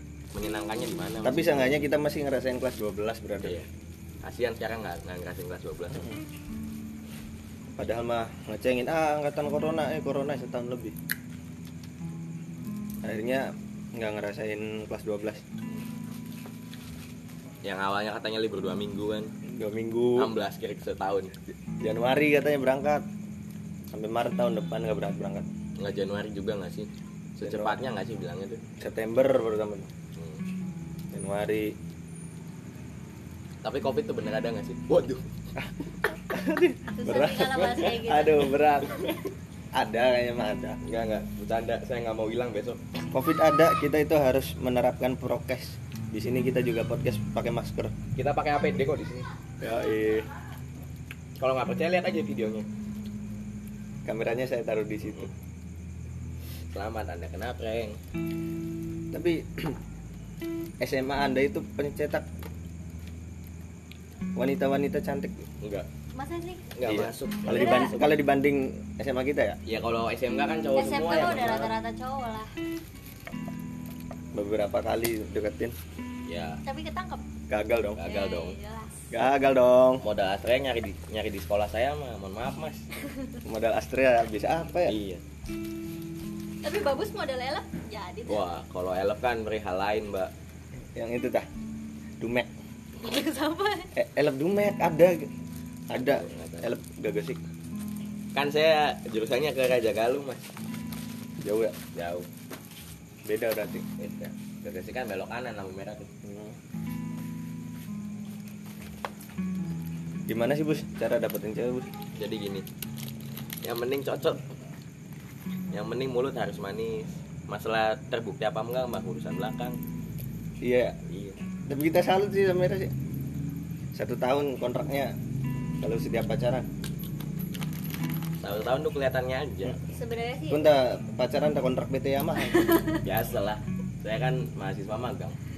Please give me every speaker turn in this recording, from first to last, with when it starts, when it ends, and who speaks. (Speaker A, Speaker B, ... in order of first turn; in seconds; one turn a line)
Speaker A: 0.3-1.8
Speaker B: 1.2-3.6
Speaker A: 3.4-3.7
Speaker A: 4.2-6.1
Speaker B: 5.9-6.2
Speaker B: 7.7-10.9
Speaker B: 13.0-15.4
Speaker A: 17.6-19.3
Speaker B: 19.4-20.3
Speaker A: 20.1-21.3
Speaker B: 21.8-23.0
Speaker B: 23.9-25.5
Speaker A: 25.8-28.6
Speaker B: 27.4-27.8
Speaker B: 28.8-29.9
Speaker A: 30.1-30.4
Speaker B: 31.1-31.8
Speaker A: 33.6-35.2
Speaker B: 36.3-39.1
Speaker C: 36.9-38.5
Speaker B: 39.7-40.8
Speaker A: 40.8-42.8
Speaker B: 43.1-48.0
Speaker A: 48.1-49.3
Speaker B: 49.6-50.3
Speaker A: 51.4-52.7
Speaker B: 54.0-55.3
Speaker A: 56.7-58.0
Speaker B: 59.1-59.8
Speaker B: 60.8-62.2
Speaker B: 64.3-65.5
Speaker A: 65.6-65.9
Speaker C: 66.1-66.7
Speaker A: 66.8-68.2
Speaker B: 66.8-69.6
Speaker C: 67.5-67.9
Speaker A: 69.7-71.7
Speaker C: 70.7-72.5
Speaker B: 74.3-75.8
Speaker A: 76.3-76.6
Speaker C: 76.6-77.2
Speaker B: 77.5-78.0
Speaker A: 78.0-78.5
Speaker C: 78.0-79.0
Speaker B: 79.1-80.0
Speaker A: 80.0-82.8
Speaker B: 83.4-85.0
Speaker A: 84.8-85.2
Speaker C: 86.6-88.4
Speaker A: 88.3-90.3
Speaker B: 91.0-91.5
Speaker B: 92.2-92.5
Speaker C: 93.0-93.9
Speaker B: 93.9-95.3
Speaker B: 95.9-97.4
Speaker A: 96.0-96.7
Speaker A: 98.3-100.5
Speaker B: 101.4-101.8
Speaker A: 101.9-102.3
Speaker B: 103.2-103.8
Speaker A: 104.0-106.1
Speaker B: 106.2-106.6
Speaker B: 110.3-111.9
Speaker A: 112.2-112.7
Speaker A: 113.6-114.4
Speaker A: 115.7-119.8
Speaker B: 120.6-121.0
Speaker A: 121.0-121.4
Speaker B: 121.7-122.9
Speaker B: 123.9-125.1
Speaker B: 125.8-126.7
Speaker A: 128.4-129.8
Speaker C: 129.9-130.7
Speaker B: 130.5-132.8
Speaker C: 132.4-133.0
Speaker A: 133.0-135.4